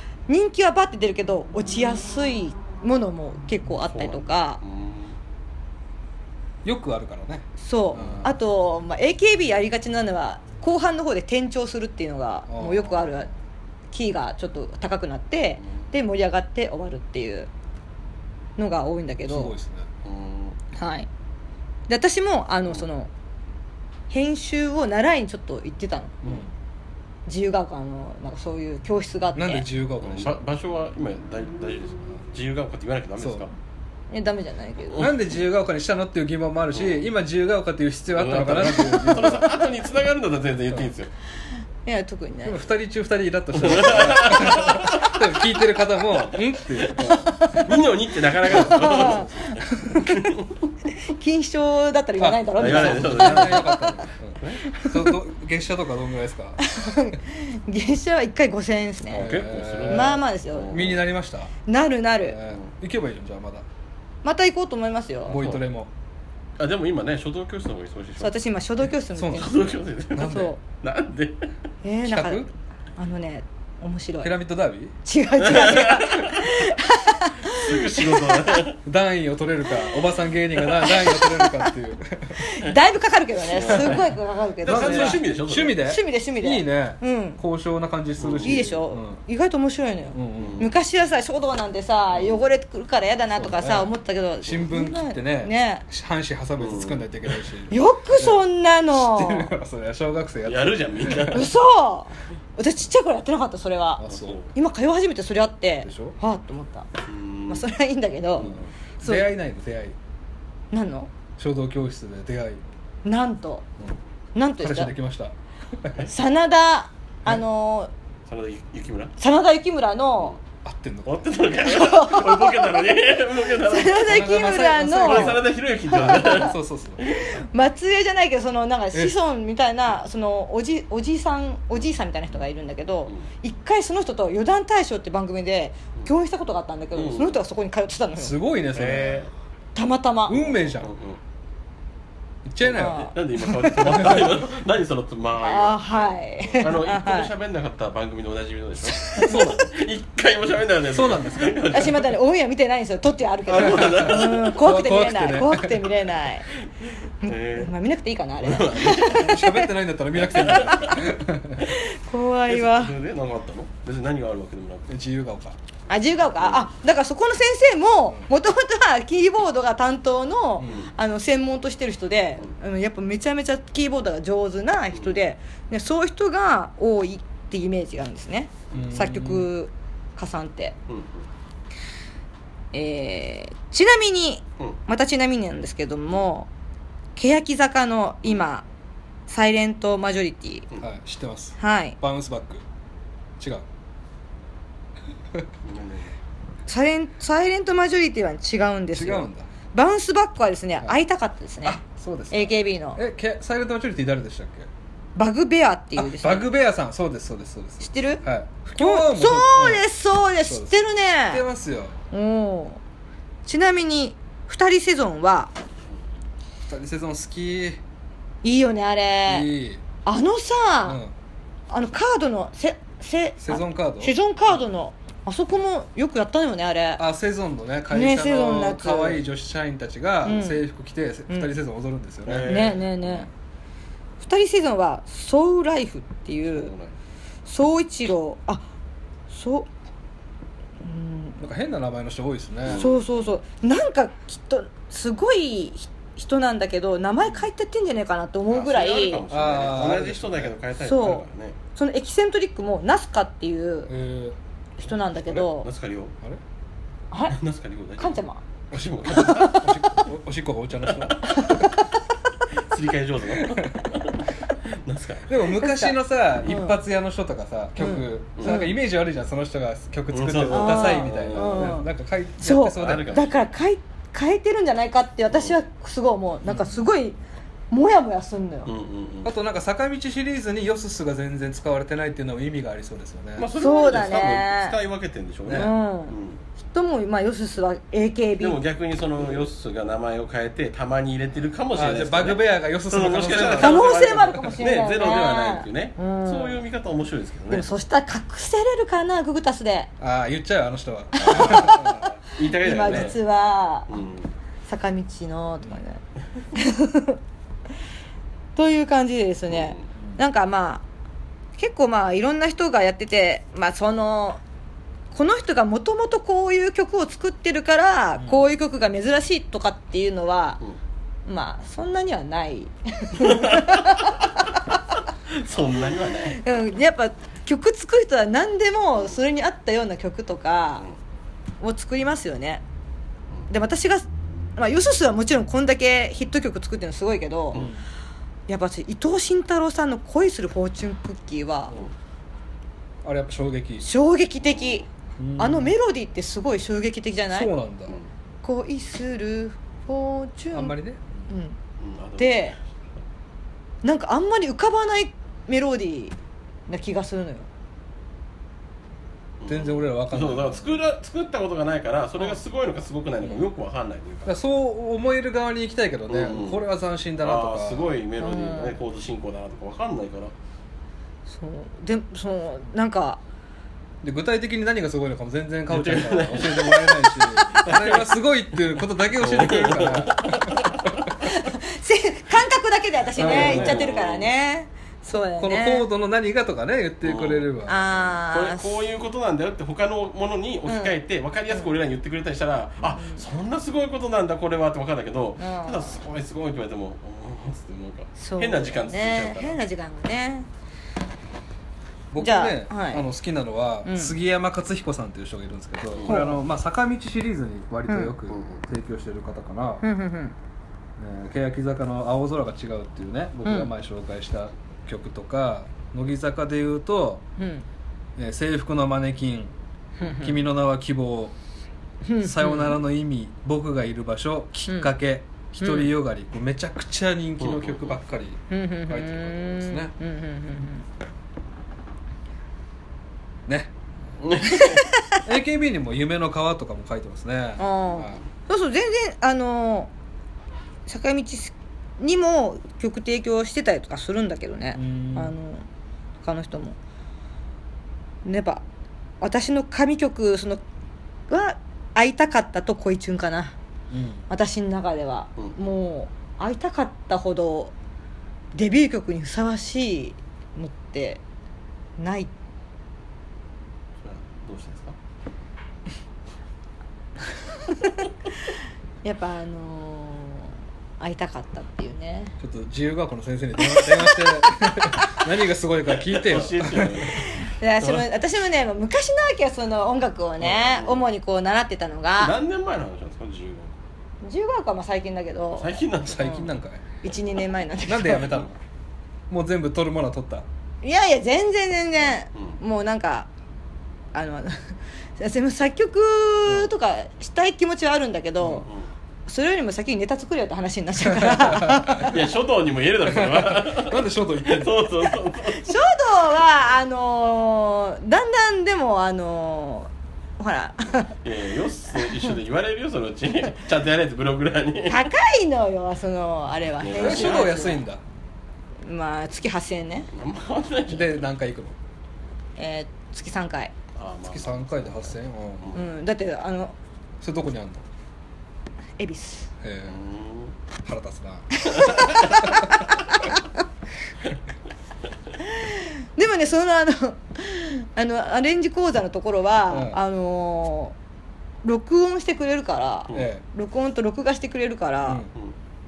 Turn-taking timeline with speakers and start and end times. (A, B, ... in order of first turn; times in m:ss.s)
0:00.3-0:04.6 A
0:03.9-0:05.2 B
0:06.6-0:08.3 C
0:07.6-0:13.3 A
0:12.5-0:13.1 C
0:13.9-0:17.5 A
0:18.6-0:19.5 A
0:19.3-0:19.9 C
0:20.0-0:20.6 B
0:20.7-0:21.1 A
0:21.9-0:23.1 A
0:24.1-0:26.1 A
0:27.3-0:29.6 A
0:29.3-0:30.4 C
0:30.0-0:33.5 B
0:33.2-0:33.5 C
0:34.1-0:35.1 A
0:34.9-0:35.3 B
0:35.0-0:39.6 C
0:36.7-0:37.0 B
0:38.1-0:41.1 B
0:41.8-0:42.6 A
0:42.4-0:47.2 C
0:43.5-0:45.4 B
0:46.1-0:50.5 B
0:47.0-0:47.7 A
0:48.4-0:50.1 C
0:48.4-0:50.2 A
0:51.0-0:54.1 A
0:52.2-0:57.1 C
0:52.6-0:53.8 B
0:54.6-0:55.1 A
0:56.6-1:00.9 A
0:59.1-1:01.0 B
0:59.1-1:01.5 C
1:01.7-1:02.4 A
1:02.2-1:03.6 C
1:04.2-1:05.4 A
1:05.3-1:05.9 C
1:05.3-1:05.6 B
1:06.6-1:08.4 B
1:08.2-1:09.6 A
1:09.1-1:10.5 C
1:09.3-1:11.5 B
1:10.2-1:10.6 A
1:11.8-1:14.3 A
1:12.0-1:12.5 C
1:14.2-1:15.0 C
1:15.0-1:18.6 A
1:15.4-1:16.5 B
1:17.4-1:18.8 B
1:18.8-1:22.4 C
1:20.7-1:21.7 A
1:22.4-1:25.2 A
1:23.5-1:25.8 B
1:23.7-1:24.0 C
1:24.6-1:29.2 C
1:25.8-1:27.4 A
1:28.2-1:28.7 B
1:28.4-1:35.8 A
1:30.1-1:30.7 C
1:30.4-1:30.7 B
1:33.4-1:33.9 C
1:34.4-1:41.4 C
1:36.6-1:37.4 B
1:37.7-1:39.5 A
1:40.4-1:41.5 B
1:41.3-1:46.9 A
1:44.0-1:44.4 C
1:44.1-1:44.5 B
1:45.8-1:46.2 C
1:47.1-1:47.6 B
1:47.5-1:49.3 A
1:48.4-1:50.0 C
1:50.7-1:51.1 A
1:51.4-1:52.6 C
1:53.0-1:53.6 A
1:54.3-1:54.9 A
1:54.6-1:56.0 C
1:56.0-1:57.9 A
1:58.2-1:59.1 B
1:59.2-2:00.4 A
2:00.6-2:01.3 C
2:01.0-2:04.1 B
2:01.6-2:02.9 A
2:03.6-2:06.5 A
2:04.0-2:07.0 C
2:04.9-2:07.4 B
2:07.1-2:18.4 A
2:16.9-2:17.4 B
2:18.2-2:19.3 C
2:18.7-2:19.3 B
2:19.7-2:20.4 A
2:20.3-2:20.9 C
2:20.3-2:21.2 B
2:22.4-2:23.1 C
2:22.6-2:24.2 A
2:22.6-2:26.0 B
2:23.8-2:24.4 C
2:25.4-2:27.3 A
2:26.6-2:32.1 B
2:28.9-2:29.6 A
2:29.2-2:29.6 C
2:30.9-2:31.8 C
2:31.7-2:36.5 A
2:33.5-2:34.6 B
2:33.6-2:35.8 C
2:36.6-2:37.7 B
2:37.2-2:39.7 A
2:38.4-2:39.3 B
2:39.0-2:41.6 C
2:40.2-2:41.0 B
2:40.4-2:41.0 A
2:41.6-2:43.0 A
2:42.5-2:44.9 B
2:44.9-2:45.6 C
2:45.9-3:00.8 A
2:46.4-2:46.7 B
2:50.6-2:50.8 C
2:50.6-2:50.9 B
2:58.7-2:59.5 C
3:00.9-3:01.3 B
3:02.7-3:06.5 A
3:07.2-3:08.6 A
3:09.3-3:10.7 A
3:10.8-3:12.6 C
3:11.6-3:12.0 A
3:13.4-3:13.6 C
3:15.6-3:16.1 B
3:16.7-3:23.0 A
3:18.9-3:19.5 C
3:21.6-3:24.7 C
3:25.2-3:26.5 A
3:26.0-3:29.8 C
3:27.8-3:28.2 A
3:28.8-3:31.4 A
3:30.4-3:32.0 C
3:32.1-3:32.8 A
3:33.4-3:35.5 A
3:36.7-3:37.8 C
3:38.4-3:39.5 A
3:39.3-3:39.8 C
3:40.0-3:41.0 A
3:40.8-3:41.1 C
3:41.7-3:47.0 A
3:43.4-3:44.1 C
3:47.0-3:53.3 C
3:47.9-3:49.2 A
3:50.2-3:50.6 A
3:51.3-3:51.5 A
3:52.2-3:52.9 B
3:52.4-3:53.3 A
3:54.2-3:56.7 A
3:56.5-3:57.0 B
3:57.4-3:58.6 A
3:59.3-3:59.7 A
4:00.8-4:01.4 A
4:01.4-4:02.9 C
4:02.6-4:03.0 B
4:02.7-4:09.2 A
4:07.2-4:07.5 C
4:08.5-4:11.6 B
4:09.3-4:10.5 C
4:10.8-4:13.9 A
4:13.9-4:14.4 C
4:14.8-4:15.7 A
4:15.1-4:15.5 C
4:15.6-4:16.1 B
4:17.1-4:17.4 A
4:17.3-4:19.6 B
4:18.0-4:18.4 A
4:18.7-4:21.7 C
4:19.1-4:19.8 A
4:20.9-4:21.4 B
4:21.3-4:21.9 A
4:22.6-4:25.3 B
4:23.4-4:23.9 C
4:25.3-4:33.2 C
4:25.5-4:26.8 A
4:27.8-4:28.8 A
4:28.4-4:28.6 B
4:30.1-4:31.8 B
4:30.5-4:31.9 A
4:32.4-4:37.2 A
4:32.7-4:33.3 B
4:35.3-4:35.6 B
4:36.4-4:36.8 C
4:37.7-4:38.7 A
4:38.6-4:39.3 B
4:39.2-4:43.5 C
4:43.4-4:46.4 B
4:43.6-4:44.8 A
4:45.4-4:45.7 C
4:45.5-4:48.6 A
4:48.4-4:57.7 B
4:51.7-4:54.6 C
4:53.6-4:56.6 A
4:57.5-4:59.9 A
5:00.0-5:02.1 C
5:01.1-5:03.9 A
5:01.2-5:03.2 B
5:02.8-5:03.1 C
5:03.9-5:04.3 B
5:04.7-5:06.0 A
5:06.5-5:07.2 A
5:08.6-5:10.8 A
5:09.5-5:09.8 B
5:11.6-5:14.4 A
5:15.1-5:20.6 A
5:18.2-5:18.4 C
5:21.2-5:24.6 A
5:23.2-5:24.0 B
5:25.3-5:26.4 B
5:26.3-5:30.8 A
5:31.6-5:32.6 A
5:33.5-5:34.0 A
5:34.6-5:37.6 A
5:37.5-5:37.8 C
5:38.5-5:41.8 A
5:43.0-5:43.9 C
5:43.8-5:44.8 A
5:44.4-5:44.8 B
5:45.2-5:45.7 C
5:45.4-5:47.5 A
5:47.3-5:48.0 C
5:48.4-5:50.7 A
5:50.5-5:51.2 C
5:51.3-5:51.6 A
5:51.8-5:52.6 B
5:52.2-5:52.6 A
5:53.8-5:56.1 A
5:56.7-5:57.5 A
5:59.4-6:04.3 B
5:59.5-6:00.8 C
6:03.2-6:03.5 C
6:04.2-6:08.0 C
6:06.1-6:06.6 B
6:07.2-6:10.3 B
6:08.2-6:08.8 A
6:11.3-6:13.2 A
6:14.0-6:20.7 C
6:15.7-6:18.1 B
6:19.2-6:21.1 B
6:21.2-6:25.8 A
6:23.2-6:24.3 B
6:23.2-6:23.9 C
6:25.1-6:27.9 C
6:27.0-6:27.5 B
6:27.7-6:28.8 A
6:28.2-6:39.6 B
6:30.7-6:31.0 A
6:32.9-6:33.2 A
6:35.4-6:36.1 A
6:38.2-6:40.5 A
6:42.1-6:49.8 C
6:42.2-6:43.0 A
6:43.8-6:44.2 A
6:45.9-6:46.2 B
6:46.0-6:46.4 A
6:47.9-6:48.1 A
6:48.3-6:48.6 B
6:49.8-6:50.3 A
6:51.0-6:57.2 C
6:53.4-6:53.7 A
6:57.4-6:57.6 A
6:58.2-7:01.3 C
7:00.0-7:00.3 A
7:02.0-7:02.8 A
7:02.2-7:09.9 C
7:04.7-7:04.9 A
7:05.6-7:05.9 A
7:07.4-7:08.0 B
7:08.5-7:10.8 A
7:13.4-7:13.7 C
7:14.2-7:14.9 B
7:14.4-7:18.2 C
7:14.5-7:15.2 A
7:17.6-7:19.9 A
7:20.8-7:25.6 A
7:24.7-7:25.3 C
7:26.2-7:26.8 A
7:28.2-7:28.6 A
7:29.2-7:30.6 A
7:31.3-7:33.5 A
7:33.9-7:34.2 C
7:34.3-7:37.7 A
7:38.5-7:41.2 A
7:42.0-7:42.3 A
7:44.0-7:45.0 B
7:47.7-7:48.0 A
7:49.0-7:52.4 A
7:52.4-7:57.1 C
7:53.6-7:55.2 A
7:56.0-7:57.3 B
7:57.0-8:02.3 A
7:57.8-7:58.0 B
8:00.5-8:01.0 B
8:02.2-8:03.7 B
8:04.2-8:06.4 A
8:05.5-8:06.5 B
8:06.0-8:06.8 C
8:07.0-8:08.4 A
8:07.8-8:08.6 C
8:09.3-8:10.4 C
8:10.8-8:13.3 A
8:12.3-8:12.6 B
8:14.1-8:18.7 A
8:16.4-8:16.7 C
8:18.6-8:18.9 B
8:19.3-8:22.1 A
8:21.0-8:22.2 C
8:22.0-8:25.7 B
8:23.1-8:25.0 C
8:25.5-8:31.2 A
8:31.2-8:35.0 B
8:34.9-8:37.8 A
8:36.8-8:37.6 B
8:36.9-8:38.0 C
8:38.8-8:40.1 A
8:40.1-8:41.2 B
8:40.9-8:41.8 C
8:42.6-8:43.7 A
8:44.0-8:45.9 B
8:44.2-8:45.7 C
8:45.7-8:46.7 A
8:47.2-8:47.8 C
8:49.0-8:49.5 A
8:49.6-8:50.0 C
8:49.8-8:50.5 B
8:50.8-8:51.6 C
8:51.5-8:53.4 A
8:51.8-8:52.4 B
8:55.4-9:01.0 A
8:59.7-9:00.0 C
9:01.6-9:05.2 A
9:03.1-9:03.4 C